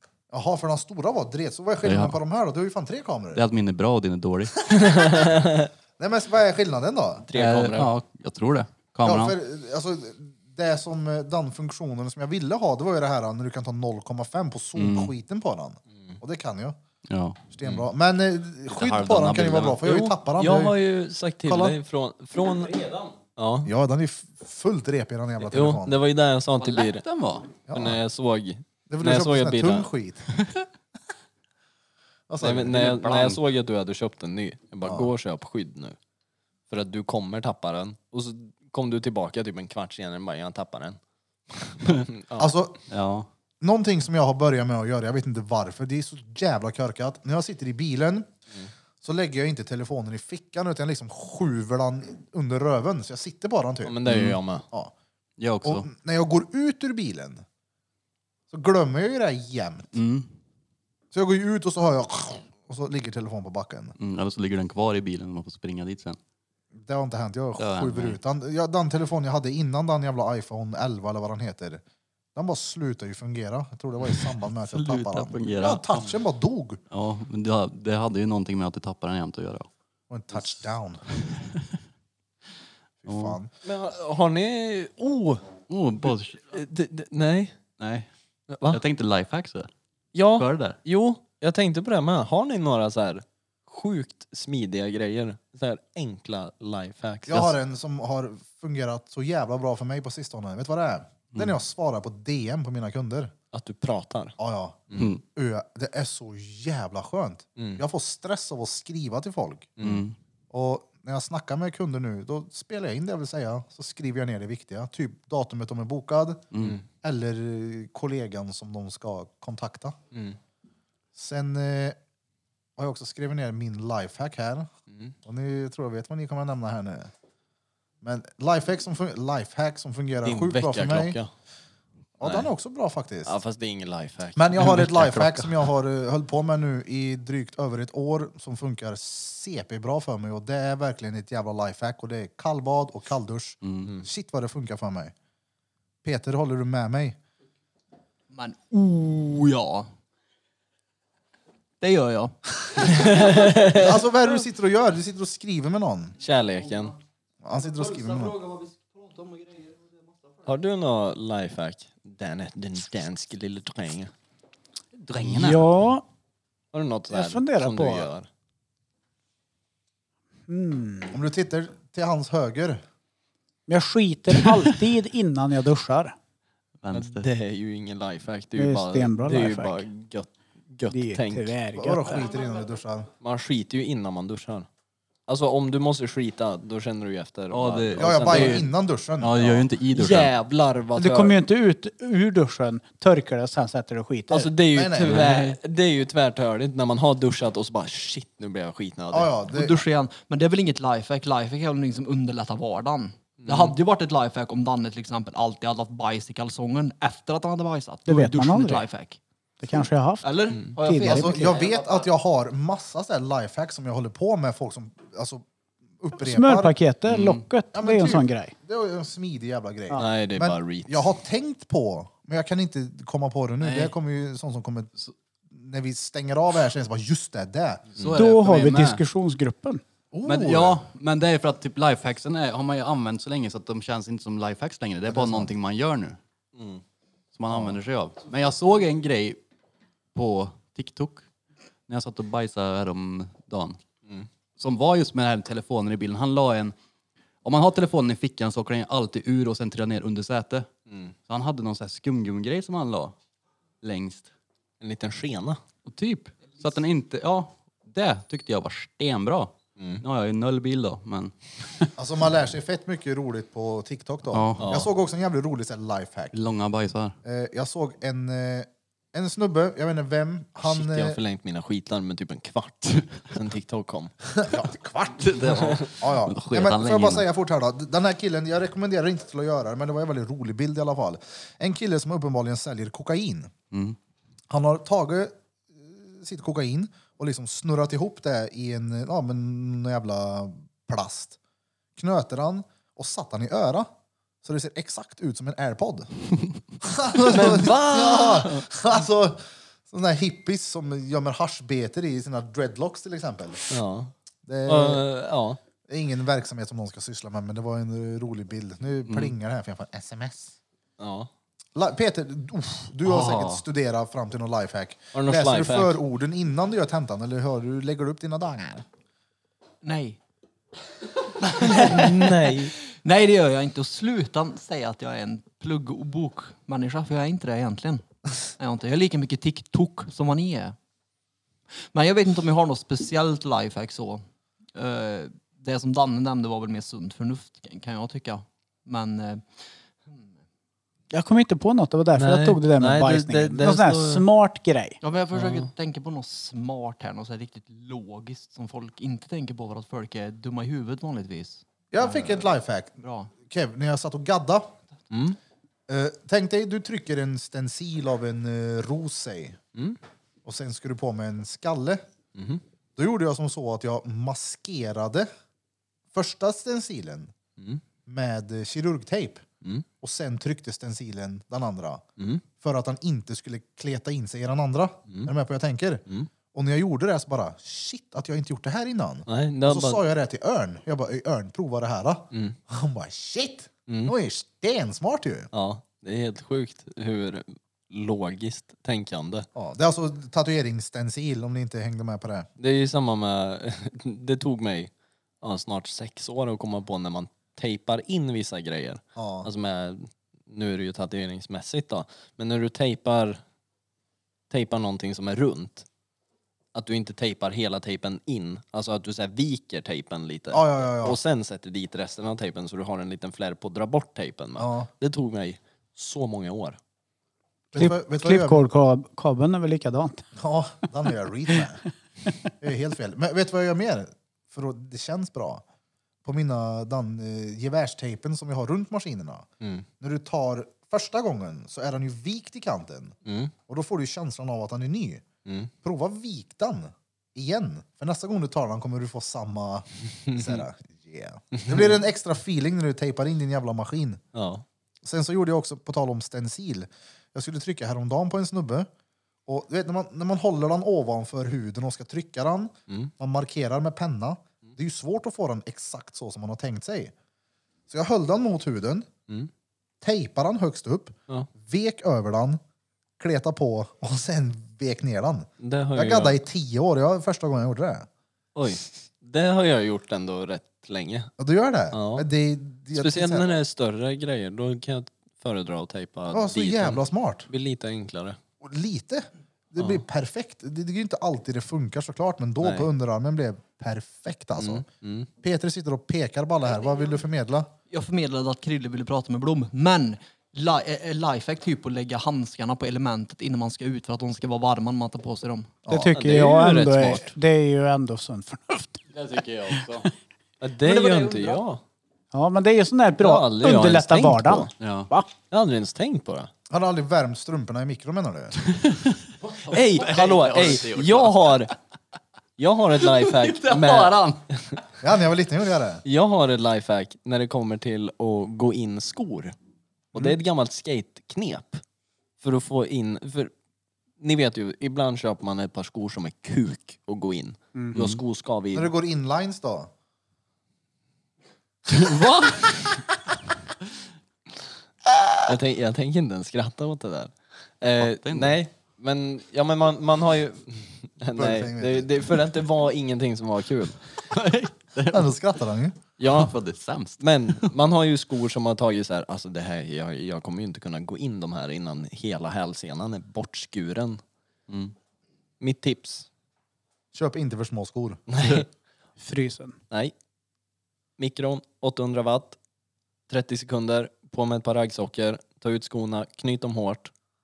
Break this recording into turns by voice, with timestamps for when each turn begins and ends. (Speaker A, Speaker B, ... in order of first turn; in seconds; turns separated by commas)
Speaker A: 0.3-3.4, Speaker B: 1.8-2.2, Speaker B: 3.3-4.6, Speaker C: 4.8-5.7, Speaker A: 6.0-7.3, Speaker C: 7.3-7.9, Speaker B: 7.3-9.3, Speaker A: 9.0-16.8, Speaker B: 14.8-15.1, Speaker B: 17.1-17.4, Speaker A: 17.5-20.8, Speaker B: 18.8-19.9, Speaker C: 19.9-23.7, Speaker A: 21.5-21.8, Speaker A: 23.6-25.9, Speaker C: 25.4-27.0, Speaker B: 26.6-27.6, Speaker A: 27.7-28.0, Speaker C: 27.7-29.9, Speaker A: 28.9-30.3, Speaker A: 32.3-33.0, Speaker C: 32.4-36.0, Speaker B: 32.8-33.4, Speaker A: 34.8-35.1, Speaker C: 36.7-41.0, Speaker C: 41.6-42.5, Speaker A: 42.4-42.8, Speaker B: 42.9-43.3, Speaker A: 43.6-48.3, Speaker A: 49.0-54.0, Speaker C: 53.8-54.6, Speaker B: 54.1-54.4, Speaker B: 55.4-55.9, Speaker A: 55.6-57.4, Speaker A: 58.5-60.0, Speaker B: 59.9-60.3, Speaker A: 61.1-64.0, Speaker B: 64.0-66.2, Speaker A: 66.8-71.8, Speaker B: 67.6-68.2, Speaker A: 72.3-76.8, Speaker B: 74.1-76.0, Speaker B: 76.9-79.7, Speaker A: 80.1-81.0, Speaker B: 81.3-81.6, Speaker A: 83.0-83.5, Speaker B: 83.1-83.4, Speaker C: 83.6-87.6, Speaker B: 85.7-86.4, Speaker B: 87.8-88.1, Speaker C: 88.5-88.8, Speaker B: 88.7-89.7, Speaker C: 90.2-97.5, Speaker B: 90.3-90.8, Speaker A: 97.3-103.3, Speaker C: 103.5-104.4, Speaker A: 104.4-109.8, Speaker B: 105.0-105.2, Speaker C: 107.6-107.8, Speaker C: 109.8-110.0, Speaker B: 109.8-110.2, Speaker A: 110.5-116.5, Speaker B: 116.5-116.8, Speaker A: 117.0-120.0, Speaker A: 121.2-122.0, Speaker A: 122.8-124.7, Speaker A: 125.3-127.1, Speaker A: 128.0-131.2, Speaker C: 130.2-131.3, Speaker A: 132.2-133.3, Speaker C: 132.2-132.5, Speaker C: 133.2-135.3, Speaker A: 134.4-145.1, Speaker B: 143.6-143.9, Speaker A: 146.0-147.2, Speaker D: 148.3-149.9, Speaker D: 151.8-152.4, Speaker C: 152.8-154.0, Speaker A: 153.7-156.2, Speaker C: 156.2-156.9, Speaker A: 157.4-158.4, Speaker D: 157.9-160.3, Speaker C: 160.4-164.1, Speaker B: 165.0-165.7, Speaker E: 165.2-166.0, Speaker C: 166.7-168.3, Speaker E: 167.1-168.1, Speaker E: 170.5-171.2, Speaker A: 171.1-172.8, Speaker E: 173.7-176.2, Speaker B: 176.8-177.3, Speaker C: 176.9-181.5, Speaker E: 178.6-179.8, Speaker E: 180.9-182.3, Speaker A: 181.7-183.1, Speaker C: 183.2-184.7, Speaker C: 185.3-188.7, Speaker B: 187.5-188.7, Speaker A: 188.0-189.6, Speaker B: 189.2-190.3, Speaker C: 189.9-191.4, Speaker E: 190.9-194.5, Speaker C: 194.3-199.3, Speaker A: 194.7-195.3, Speaker A: 199.1-199.8, Speaker D: 199.5-209.2, Speaker C: 203.4-203.8, Speaker E: 208.1-208.8, Speaker E: 209.6-211.5, Speaker D: 209.7-212.1, Speaker A: 211.0-215.4, Speaker A: 216.0-216.8, Speaker E: 216.2-218.5, Speaker A: 217.7-224.9, Speaker C: 220.0-221.0, Speaker B: 223.6-223.9, Speaker A: 225.5-227.8, Speaker B: 227.9-229.0, Speaker E: 228.1-229.8, Speaker A: 230.1-230.8, Speaker B: 230.2-236.2, Speaker A: 235.1-235.5, Speaker C: 236.6-236.8, Speaker B: 237.3-239.4, Speaker A: 237.5-237.8, Speaker B: 240.1-241.3, Speaker B: 241.9-243.8, Speaker B: 244.6-246.8, Speaker B: 247.4-250.7, Speaker B: 251.3-253.2, Speaker B: 253.8-254.3, Speaker C: 254.8-255.6, Speaker B: 255.9-261.9, Speaker C: 259.8-260.0, Speaker A: 262.0-266.3, Speaker B: 264.3-264.8, Speaker C: 264.6-264.9, Speaker B: 266.3-267.1, Speaker A: 267.2-271.2, Speaker C: 270.6-274.3, Speaker A: 274.5-283.5, Speaker B: 275.2-277.3, Speaker C: 275.6-275.8, Speaker B: 283.7-284.0, Speaker A: 284.5-291.4, Speaker A: 292.0-293.9, Speaker A: 294.4-296.1, Speaker A: 296.8-303.8, Speaker C: 297.3-298.6, Speaker C: 303.7-304.1, Speaker A: 304.5-305.0, Speaker C: 304.6-305.6, Speaker A: 305.9-310.6, Speaker B: 309.1-309.3, Speaker C: 311.0-311.3, Speaker A: 311.8-318.9, Speaker B: 313.2-313.6, Speaker C: 315.1-316.0, Speaker D: 319.8-320.2, Speaker D: 321.6-328.0, Speaker C: 321.6-322.7, Speaker D: 328.6-330.8, Speaker D: 331.9-340.3, Speaker E: 341.1-345.0, Speaker C: 342.2-344.2, Speaker D: 345.0-352.5, Speaker C: 345.3-345.7, Speaker A: 351.9-354.7, Speaker D: 353.0-353.3, Speaker C: 355.1-355.4, Speaker A: 355.9-359.6, Speaker A: 360.4-362.0, Speaker C: 362.4-362.6, Speaker A: 363.0-365.3, Speaker A: 366.1-367.3, Speaker A: 368.1-369.4, Speaker A: 370.0-372.0, Speaker C: 372.2-372.4, Speaker A: 372.6-385.5, Speaker C: 379.3-380.0, Speaker C: 383.9-384.1, Speaker C: 385.5-389.5, Speaker A: 389.6-392.5, Speaker C: 392.6-394.9, Speaker C: 395.4-403.4, Speaker A: 399.2-399.5, Speaker C: 404.5-405.9, Speaker C: 406.7-416.8, Speaker A: 410.5-411.2, Speaker A: 414.6-414.9, Speaker A: 417.7-418.6, Speaker E: 417.8-420.3, Speaker A: 420.4-421.8, Speaker A: 422.6-425.6, Speaker A: 426.2-429.5, Speaker A: 430.0-433.2, Speaker C: 433.3-433.5, Speaker A: 433.7-435.2, Speaker C: 435.5-435.7, Speaker A: 435.8-444.2, Speaker C: 440.3-440.6, Speaker C: 441.5-442.0, Speaker C: 444.3-444.6, Speaker A: 445.0-448.9, Speaker A: 449.5-457.1, Speaker A: 457.9-459.1, Speaker A: 460.0-462.6, Speaker A: 463.2-468.1, Speaker C: 465.6-466.4, Speaker C: 468.6-471.3, Speaker A: 471.4-473.6, Speaker C: 471.9-472.3, Speaker C: 472.9-478.4, Speaker A: 476.3-477.5, Speaker A: 478.6-484.9, Speaker C: 482.6-482.9, Speaker C: 484.6-485.3, Speaker A: 485.4-487.7, Speaker D: 487.9-495.7, Speaker A: 495.9-496.1, Speaker E: 495.9-499.0, Speaker C: 496.1-497.3, Speaker B: 499.1-500.1, Speaker C: 500.6-501.8, Speaker D: 500.8-501.6, Speaker E: 502.3-505.3, Speaker C: 503.2-504.7, Speaker B: 504.8-505.1, Speaker C: 505.5-506.5, Speaker A: 506.7-508.6, Speaker B: 509.4-511.7, Speaker C: 509.7-511.7, Speaker C: 512.6-514.8, Speaker B: 513.1-514.4, Speaker A: 515.0-516.0, Speaker C: 516.0-519.5, Speaker C: 520.1-521.8, Speaker C: 522.4-523.5, Speaker C: 524.2-528.9, Speaker B: 527.9-528.2, Speaker A: 528.7-529.9, Speaker B: 532.0-532.6, Speaker C: 532.1-532.9, Speaker C: 535.5-544.0, Speaker B: 538.0-538.6, Speaker A: 541.3-542.1, Speaker B: 544.3-545.3, Speaker A: 545.1-546.0, Speaker B: 546.2-547.7, Speaker C: 546.2-546.5, Speaker C: 547.2-554.2, Speaker B: 554.7-554.9, Speaker C: 555.6-556.3, Speaker A: 557.1-558.2, Speaker C: 558.3-558.7, Speaker E: 559.2-559.8, Speaker C: 561.2-562.6, Speaker C: 563.3-567.1